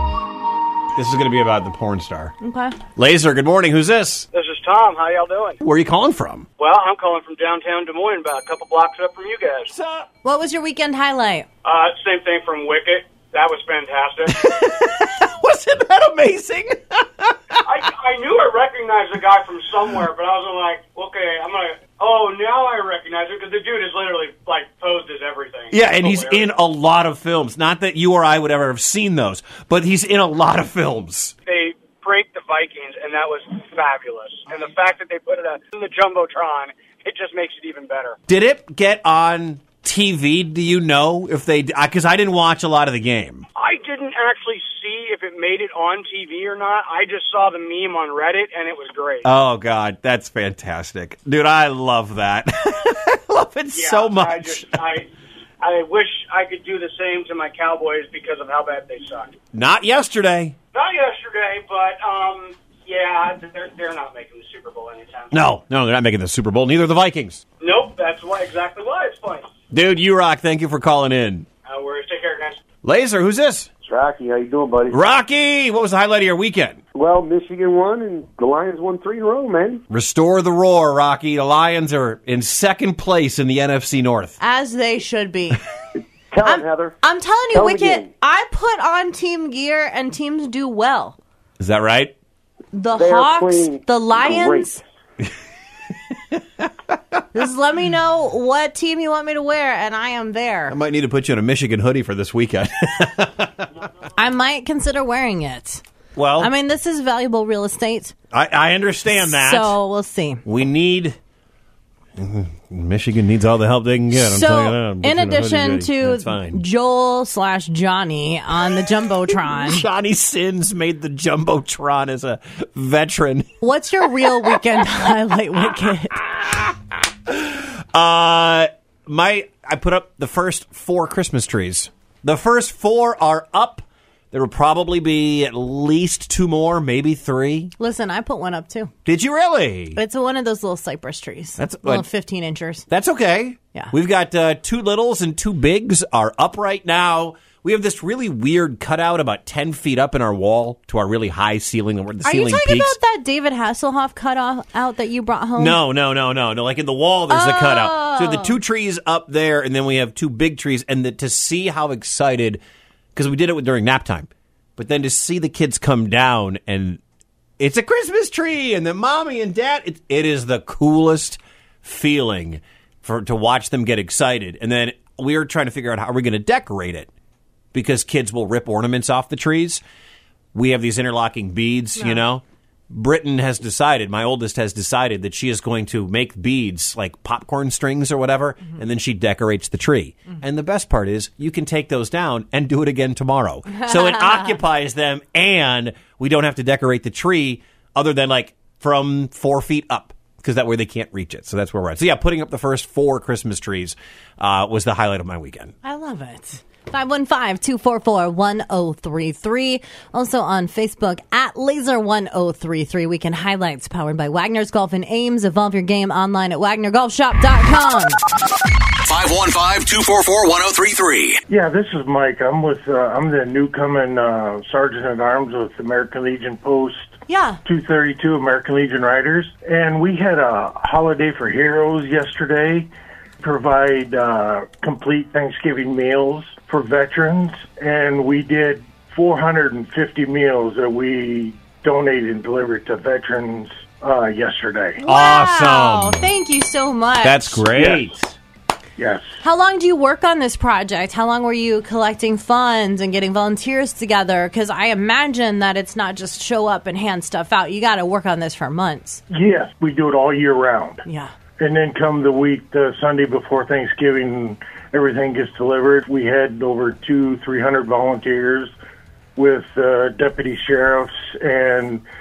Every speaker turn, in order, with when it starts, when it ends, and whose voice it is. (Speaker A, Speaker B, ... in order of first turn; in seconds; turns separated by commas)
Speaker A: 0.9-2.3, Speaker B: 2.4-2.8, Speaker A: 3.0-4.3, Speaker C: 4.3-5.6, Speaker A: 5.6-6.5, Speaker C: 6.6-9.7, Speaker A: 9.7-10.1, Speaker B: 10.2-11.5, Speaker C: 11.6-14.5, Speaker A: 14.3-17.4, Speaker C: 17.6-26.5, Speaker A: 25.7-31.4, Speaker C: 31.4-38.2, Speaker A: 38.3-43.5, Speaker C: 43.6-49.3, Speaker A: 49.2-54.7, Speaker C: 53.7-55.1, Speaker C: 55.6-59.4, Speaker A: 59.5-60.6, Speaker C: 60.7-65.4, Speaker A: 65.3-67.4, Speaker C: 67.6-69.5, Speaker A: 69.7-71.5, Speaker C: 71.7-72.6, Speaker A: 72.8-73.7, Speaker D: 73.8-75.0, Speaker A: 74.9-76.8, Speaker D: 76.9-79.8, Speaker A: 79.9-84.4, Speaker B: 84.4-85.6, Speaker D: 86.3-87.0, Speaker B: 86.4-91.2, Speaker D: 87.5-88.1, Speaker A: 91.6-92.1, Speaker B: 92.7-94.8, Speaker D: 92.9-94.8, Speaker A: 96.3-97.2, Speaker B: 97.3-100.8, Speaker A: 100.7-103.7, Speaker B: 104.2-105.8, Speaker A: 106.2-106.5, Speaker B: 106.4-108.1, Speaker A: 108.3-109.8, Speaker B: 109.2-110.4, Speaker A: 110.5-111.2, Speaker A: 112.2-116.6, Speaker B: 114.1-119.9, Speaker A: 119.3-123.5, Speaker B: 123.6-126.2, Speaker A: 126.1-137.7, Speaker B: 137.8-138.9, Speaker A: 139.1-140.0, Speaker B: 139.9-142.9, Speaker A: 141.6-142.1, Speaker A: 142.9-153.0, Speaker B: 152.2-155.8, Speaker A: 155.6-162.6, Speaker B: 157.3-158.6, Speaker A: 163.2-167.0, Speaker A: 167.6-177.1, Speaker A: 177.7-179.8, Speaker A: 180.5-205.7, Speaker B: 193.8-194.5, Speaker B: 205.8-218.2, Speaker E: 219.0-221.4, Speaker F: 221.5-232.9, Speaker B: 227.3-227.6, Speaker F: 233.4-245.0, Speaker B: 245.0-247.7, Speaker A: 245.0-246.3, Speaker A: 247.2-248.4, Speaker F: 249.0-249.3, Speaker B: 249.4-259.2, Speaker F: 259.3-261.0, Speaker B: 261.1-261.3, Speaker F: 261.6-268.7, Speaker F: 269.4-272.0